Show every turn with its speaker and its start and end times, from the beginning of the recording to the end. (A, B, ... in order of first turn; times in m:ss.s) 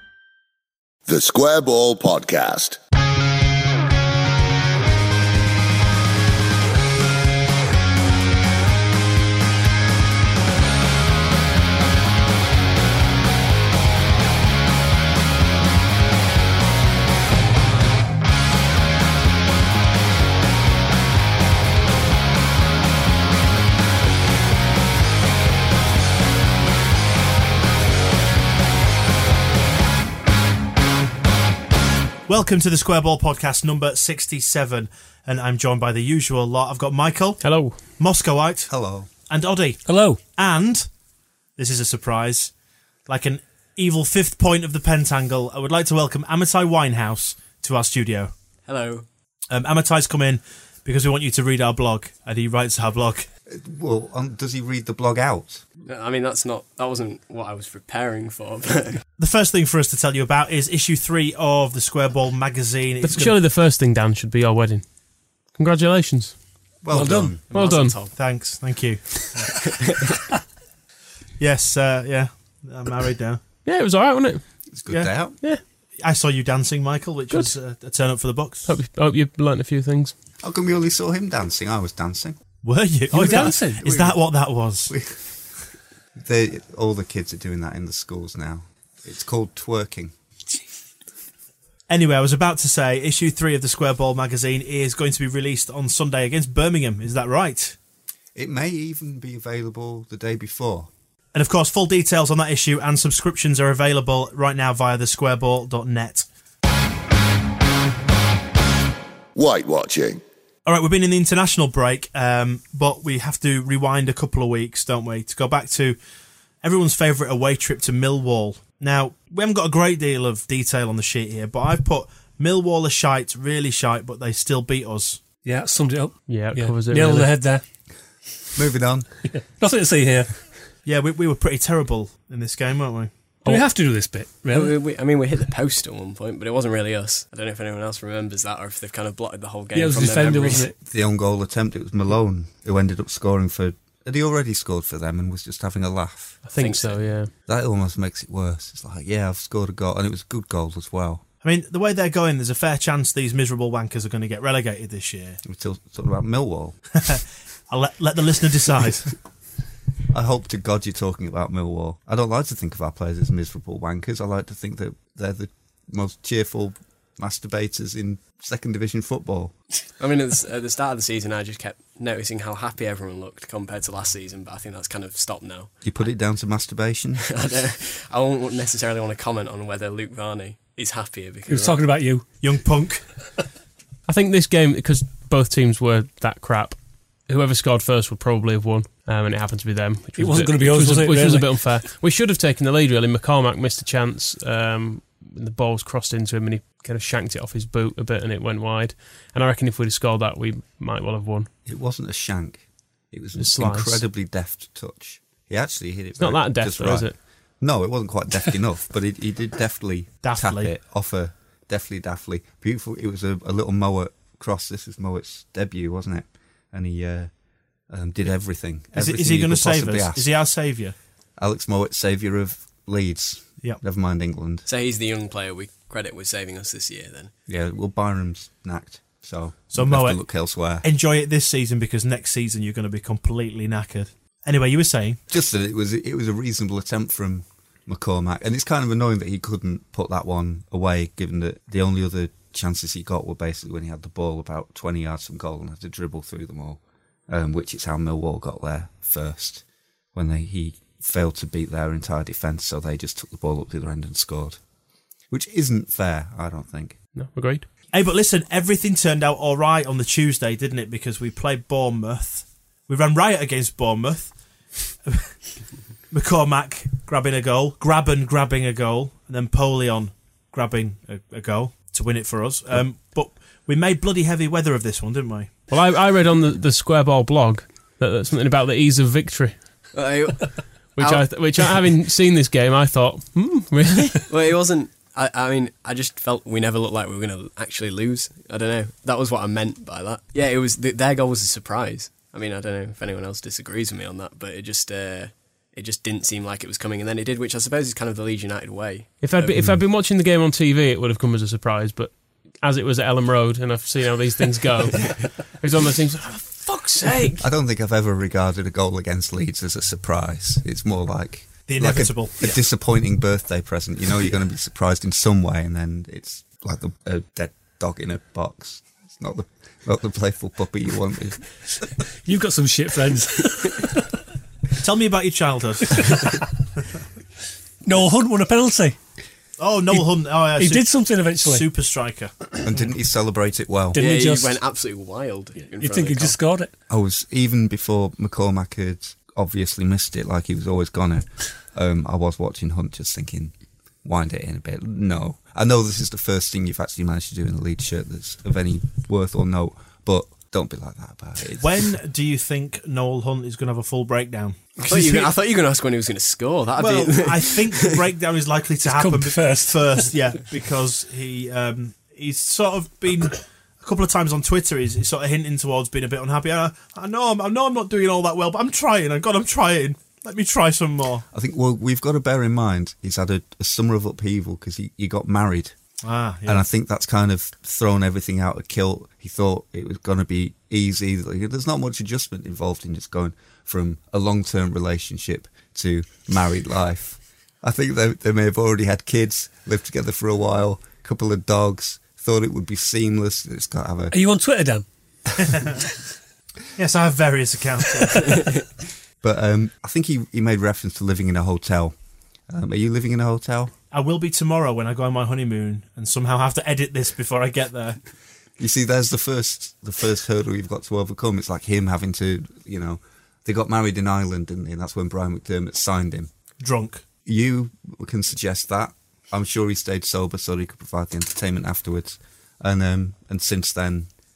0:01.1-0:02.8 A
0:32.3-0:38.7 B
0:37.4-0:37.9 C
0:38.7-0:39.1 D
0:39.3-0:40.9 B
0:39.9-0:40.2 E
0:41.6-0:42.5 B
0:43.1-0:48.3 B
0:48.7-0:49.1 F
0:49.5-0:53.3 B
0:53.5-0:55.6 D
0:55.9-0:59.0 F
0:59.2-1:03.4 B
1:03.0-1:04.9 C
1:05.5-1:06.4 C
1:06.8-1:07.4 D
1:06.9-1:07.4 E
1:07.5-1:08.0 C
1:07.5-1:08.2 F
1:07.5-1:09.6 B
1:09.6-1:10.1 F
1:11.4-1:13.4 B
1:13.6-1:14.6 C
1:14.7-1:15.4 D
1:14.9-1:15.3 B
1:16.0-1:18.7 B
1:18.7-1:20.1 C
1:20.4-1:22.4 D
1:22.6-1:25.0 B
1:23.1-1:24.1 E
1:23.3-1:24.1 D
1:24.9-1:25.3 D
1:26.2-1:30.1 D
1:31.9-1:37.8 B
1:38.4-1:40.9 D
1:41.3-1:46.3 B
1:49.4-1:50.2 A
1:50.7-1:56.0 B
1:56.6-2:05.2 B
2:05.4-2:07.6 E
2:06.3-2:07.4 C
2:08.6-2:09.1 D
2:09.3-2:10.5 E
2:10.8-2:13.1 B
2:13.4-2:14.8 E
2:14.5-2:20.7 F
2:19.7-2:20.8 E
2:20.8-2:26.4 D
2:26.4-2:27.3 C
2:26.6-2:27.0 F
2:27.5-2:31.2 D
2:31.4-2:35.4 B
2:35.4-2:36.8 D
2:37.1-2:39.2 B
2:40.1-2:49.6 D
2:50.0-2:55.7 F
2:55.8-2:57.4 D
2:57.3-3:01.8 F
3:01.5-3:02.3 E
3:02.4-3:03.1 B
3:04.1-3:21.5 C
3:10.2-3:11.8 E
3:21.7-3:37.3 D
3:23.4-3:24.0 C
3:26.2-3:27.2 C
3:30.2-3:30.7 B
3:37.9-3:40.3 D
3:38.9-3:41.0 B
3:41.4-3:44.7 D
3:44.7-3:47.3 F
3:47.5-3:50.9 D
3:49.7-3:50.2 B
3:50.8-3:55.2 B
3:55.3-4:14.6 D
4:15.3-4:17.0 D
4:17.2-4:17.7 C
4:17.9-4:24.3 B
4:25.1-4:25.3 B
4:26.1-4:35.5 B
4:35.7-4:39.6 C
4:39.9-4:41.8 F
4:41.0-4:44.3 C
4:44.3-4:59.6 F
4:59.2-5:07.4 C
5:07.4-5:21.5 D
5:11.7-5:12.6 B
5:22.3-5:23.9 E
5:24.8-5:26.3 B
5:27.8-5:29.0 E
5:29.6-5:32.6 B
5:29.9-5:31.7 E
5:32.6-5:34.0 D
5:33.9-5:34.6 E
5:34.0-5:36.4 F
5:35.7-5:36.7 E
5:36.9-5:51.9 D
5:51.6-5:55.3 B
5:54.9-5:58.1 F
5:56.8-6:11.3 B
5:58.8-6:00.1 E
6:11.3-6:15.8 D
6:16.0-6:16.6 B
6:16.5-6:34.2 D
6:34.1-6:34.9 E
6:35.4-6:35.8 B
6:36.8-6:38.6 B
6:39.2-6:42.0 D
6:42.5-6:43.7 D
6:43.9-6:48.0 B
6:48.6-6:56.3 D
6:56.6-6:57.0 B
6:57.2-7:04.1 D